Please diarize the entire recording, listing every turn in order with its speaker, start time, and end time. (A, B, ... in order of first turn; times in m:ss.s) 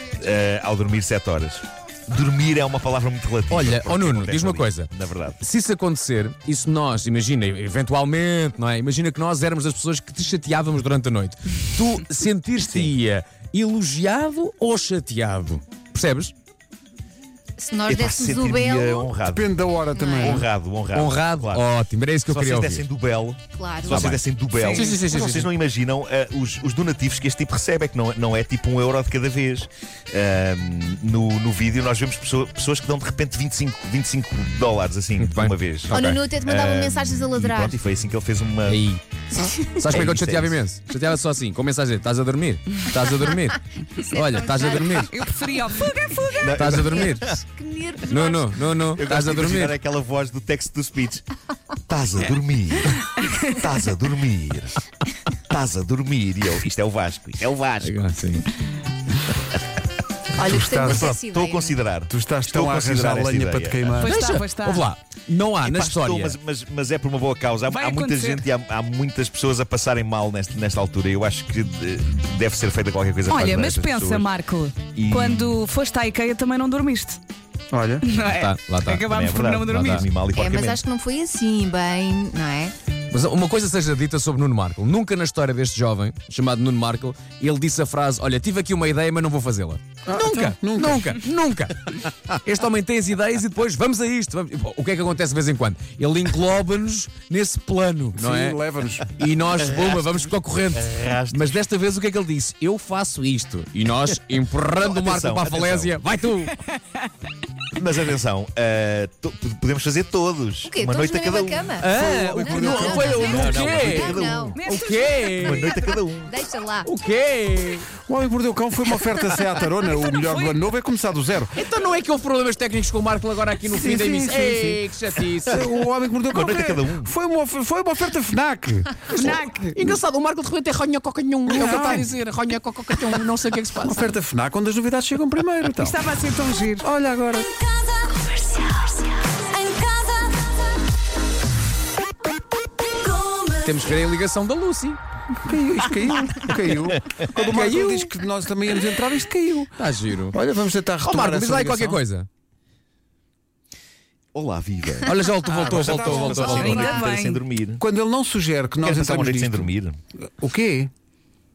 0:00.2-0:05.4 A
0:03.5-0:04.9 B
0:05.4-0:16.3 B
0:12.7-0:12.9 A
0:17.6-0:19.1 C
0:17.9-0:19.5 A
0:19.2-0:20.4 D
0:20.0-0:20.4 C
0:20.2-0:21.6 A
0:20.9-0:22.8 B
0:22.3-0:38.8 A
0:23.6-0:24.1 C
0:23.9-0:25.5 B
0:24.5-0:24.9 E
0:35.2-0:36.2 B
0:35.9-0:37.8 C
0:38.7-0:39.0 B
0:39.4-0:40.6 A
0:39.6-0:45.1 B
0:44.0-0:45.1 C
0:45.0-0:46.5 E
0:46.4-0:47.4 A
0:46.5-0:47.4 B
0:47.0-0:48.6 C
0:48.1-0:49.8 B
0:49.0-0:51.2 A
0:51.9-0:54.8 A
0:55.5-0:57.9 A
0:57.8-0:58.5 B
1:00.4-1:01.8 C
1:00.4-1:01.2 D
1:00.8-1:04.0 A
1:02.1-1:04.2 D
1:04.0-1:04.9 E
1:04.1-1:06.4 B
1:05.6-1:14.3 A
1:07.7-1:08.4 E
1:13.3-1:17.2 E
1:15.0-1:15.6 A
1:17.7-1:18.0 D
1:18.0-1:20.1 E
1:18.1-1:19.1 B
1:19.1-1:20.8 A
1:19.7-1:20.0 B
1:20.3-1:22.8 C
1:23.1-1:46.5 B
1:30.1-1:31.1 D
1:38.2-1:39.1 D
1:39.6-1:41.5 A
1:44.8-1:46.0 A
1:47.8-1:51.8 A
1:50.6-1:56.9 C
1:51.8-1:54.0 B
1:52.0-1:53.0 D
1:52.5-1:54.6 A
1:54.0-1:55.8 E
1:54.6-1:55.6 B
1:55.3-1:56.3 A
1:56.8-1:57.9 B
1:58.1-2:01.6 D
2:01.6-2:05.6 B
2:03.7-2:04.8 D
2:05.5-2:09.1 D
2:06.3-2:07.1 A
2:09.1-2:14.1 B
2:09.2-2:09.8 E
2:11.5-2:12.1 D
2:13.8-2:16.0 D
2:15.8-2:16.8 E
2:16.8-2:17.5 D
2:18.1-2:18.6 C
2:23.5-2:25.0 B
2:25.4-2:29.7 D
2:27.4-2:28.1 B
2:29.8-2:30.4 B
2:30.3-2:32.0 D
2:31.0-2:32.3 B
2:34.3-2:35.1 A
2:35.0-2:36.7 B
2:35.4-2:37.1 D
2:35.7-2:37.8 A
2:36.3-2:37.4 E
2:37.8-2:39.7 D
2:38.8-2:40.0 A
2:40.4-2:40.9 D